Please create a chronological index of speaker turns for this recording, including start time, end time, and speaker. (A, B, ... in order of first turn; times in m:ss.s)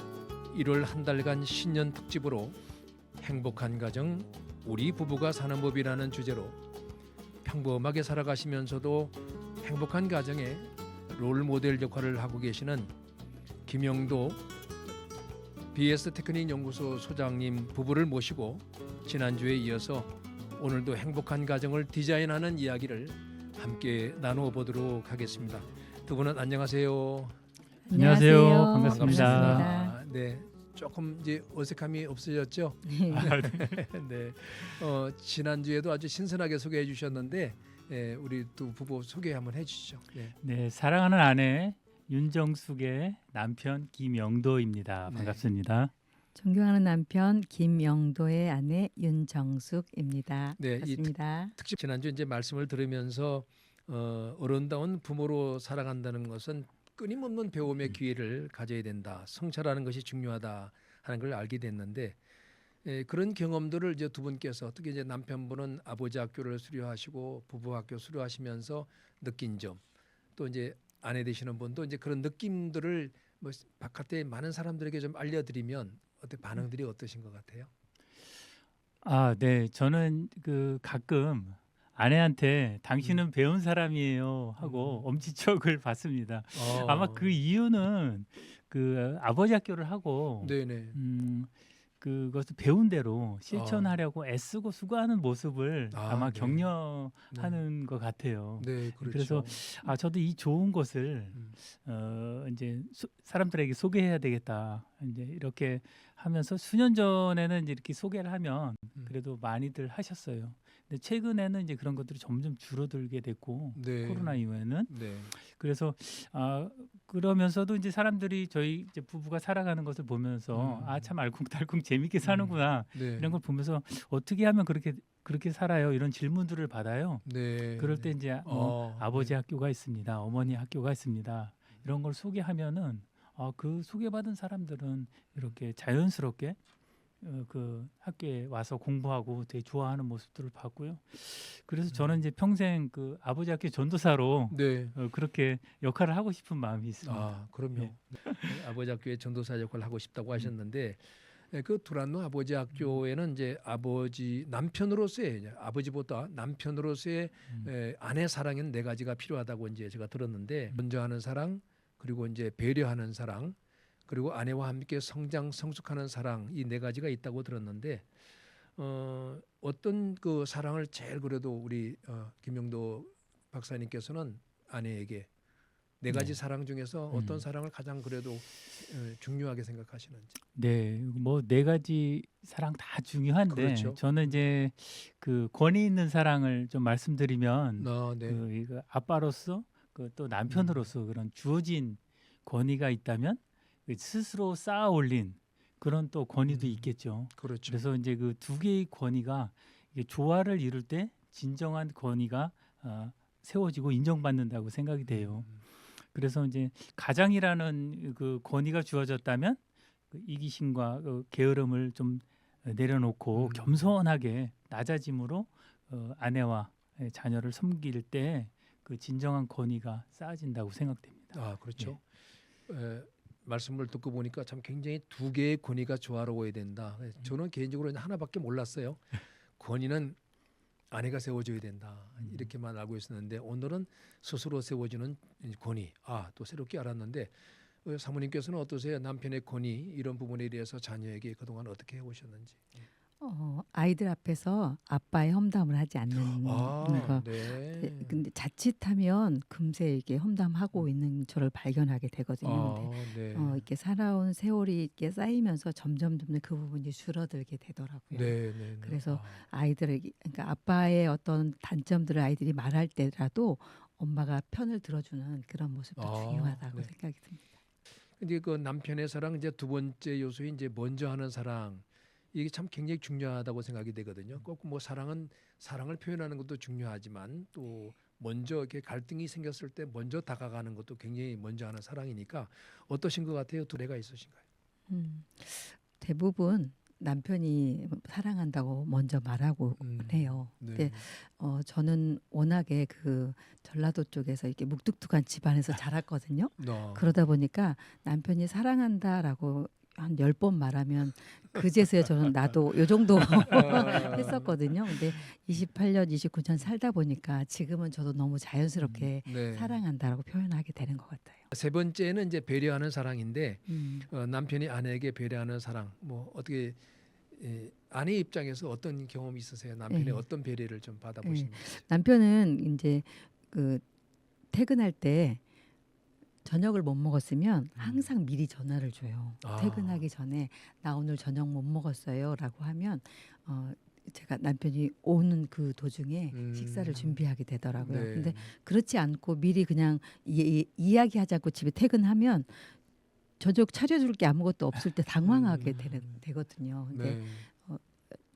0:00.5-0:02.6 A
0:03.2-0:06.6 A
0:07.4-0:12.9 A
0:13.6-0:14.4 A
0:15.7-0:27.4 A
0:27.8-0:30.0 B
0:27.9-0:29.7 C
0:28.8-0:40.3 A
0:32.8-0:33.3 B
0:33.1-0:33.8 C
0:40.4-0:45.9 C
0:45.1-0:45.4 A
0:46.3-0:51.5 B
0:50.6-1:02.2 A
1:02.8-1:09.8 A
1:10.4-1:17.7 A
1:19.0-2:16.6 C
1:24.6-1:25.1 A
1:26.5-1:27.3 A
1:30.4-1:31.0 A
1:33.5-1:34.0 A
1:35.9-1:36.7 A
1:37.3-1:37.6 A
1:38.6-1:39.6 A
1:53.7-1:55.3 A
2:00.5-2:01.1 A
2:02.2-2:03.4 A
2:07.2-2:09.4 A
2:17.2-2:28.5 C
2:21.9-2:22.2 A
2:24.5-2:25.0 A
2:27.0-2:48.1 A
2:48.7-2:55.3 A
2:56.0-3:00.4 A
2:56.1-2:56.4 C
2:57.1-2:57.4 C
3:00.5-3:42.0 C
3:03.5-3:04.4 A
3:07.8-3:08.4 A
3:10.5-3:10.9 A
3:16.5-3:17.8 A
3:25.0-3:25.6 A
3:33.3-3:33.8 A
3:41.3-3:42.0 A
3:42.7-3:50.2 A
3:50.9-4:02.9 A
3:52.2-3:52.5 C
4:03.2-4:27.5 B
4:06.1-4:08.2 A
4:12.4-4:13.6 A
4:18.1-4:19.4 A
4:26.0-4:26.9 A
4:28.2-4:44.4 A
4:44.9-5:11.5 B
4:49.8-4:51.0 A
4:56.6-4:57.0 A
5:03.5-5:04.6 A
5:08.8-5:09.1 C
5:09.2-5:09.8 A
5:11.5-5:16.8 A
5:13.7-5:14.1 B
5:17.3-5:21.8 A
5:19.9-5:20.2 B
5:21.2-5:23.8 B
5:24.5-5:25.4 B
5:26.4-5:42.8 B
5:27.8-5:28.1 A
5:29.4-5:30.0 A
5:36.3-5:37.2 A
5:37.8-5:38.5 A
5:43.4-5:48.0 B
5:45.2-5:46.1 A
5:46.9-5:47.5 A